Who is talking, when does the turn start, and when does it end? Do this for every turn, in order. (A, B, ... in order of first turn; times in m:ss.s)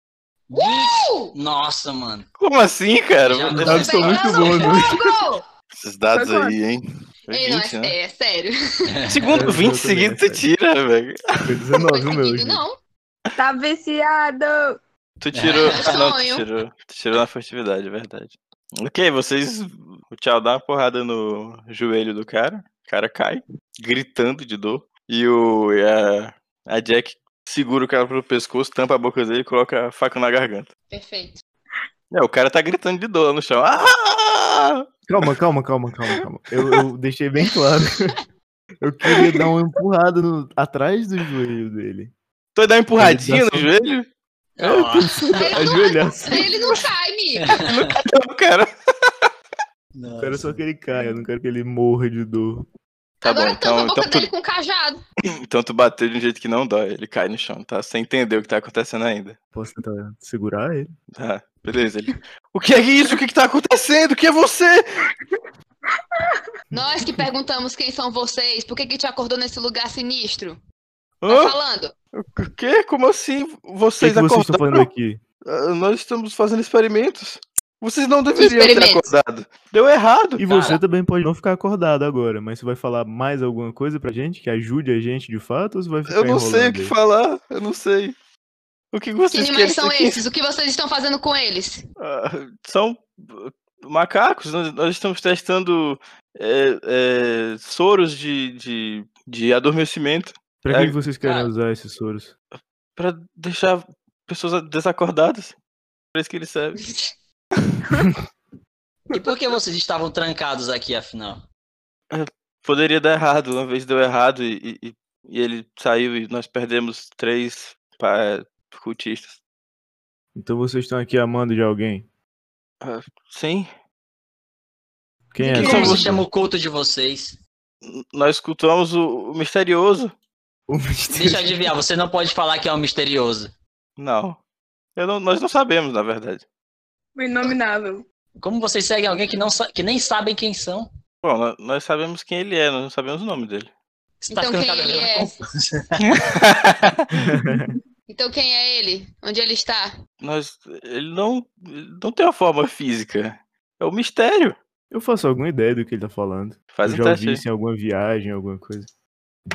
0:00.5-0:02.3 A
0:00.5-0:01.3 B
0:02.4-0:04.2 C
0:03.2-0:04.6 A
0:03.6-0:05.2 D
0:03.8-0:05.4 B
0:05.7-0:08.0 C
0:06.1-0:06.6 E
0:07.3-0:08.9 B
0:08.9-0:09.5 A
0:09.1-0:11.4 C
0:09.3-0:10.5 D
0:11.4-0:12.6 D
0:11.9-0:12.8 B
0:13.4-0:14.8 E
0:15.2-0:30.7 C
0:15.3-0:15.8 A
0:15.7-0:16.4 B
0:30.9-0:31.4 B
0:32.1-0:34.9 C
0:35.1-0:38.2 D
0:36.1-0:36.8 C
0:38.8-0:42.1 D
0:42.6-0:44.1 C
0:43.0-0:43.7 D
0:44.6-0:45.6 A
0:44.6-0:45.3 C
0:45.4-0:47.6 B
0:45.5-0:46.6 D
0:47.4-0:48.0 A
0:47.6-0:49.3 C
0:50.0-0:50.6 A
0:50.2-0:52.7 D
0:53.2-0:54.3 C
0:53.2-0:55.0 B
0:55.3-0:59.4 C
0:59.5-1:00.9 D
1:01.1-1:05.1 C
1:06.7-1:10.6 B
1:11.2-1:11.6 C
1:11.3-1:11.9 B
1:12.1-1:14.9 C
1:14.0-1:15.2 D
1:15.4-1:20.4 C
1:18.4-1:19.0 B
1:20.4-1:27.0 D
1:20.5-1:20.8 A
1:26.1-1:28.2 C
1:28.9-1:30.2 C
1:29.3-1:31.8 B
1:32.0-1:41.0 C
1:40.6-1:42.3 D
1:41.2-1:41.5 A
1:43.0-1:45.6 C
1:46.1-1:47.0 C
1:49.1-1:51.4 A
1:52.1-1:59.4 C
2:00.4-2:02.1 D
2:02.8-2:03.7 C
2:05.3-2:06.2 D
2:05.4-2:06.1 E
2:05.5-2:07.4 A
2:05.6-2:06.1 C
2:07.8-2:10.1 C
2:10.7-2:11.7 D
2:11.1-2:13.5 A
2:14.0-2:14.4 C
2:15.0-2:16.4 C
2:17.2-2:18.0 E
2:18.4-2:20.9 A
2:21.2-2:23.7 C
2:24.2-2:26.1 A
2:24.3-2:25.4 B
2:26.0-2:27.1 C
2:27.2-2:27.8 D
2:27.5-2:27.8 E
2:28.1-2:29.9 B
2:30.2-2:34.6 C
2:34.9-2:38.9 D
2:36.7-2:37.4 C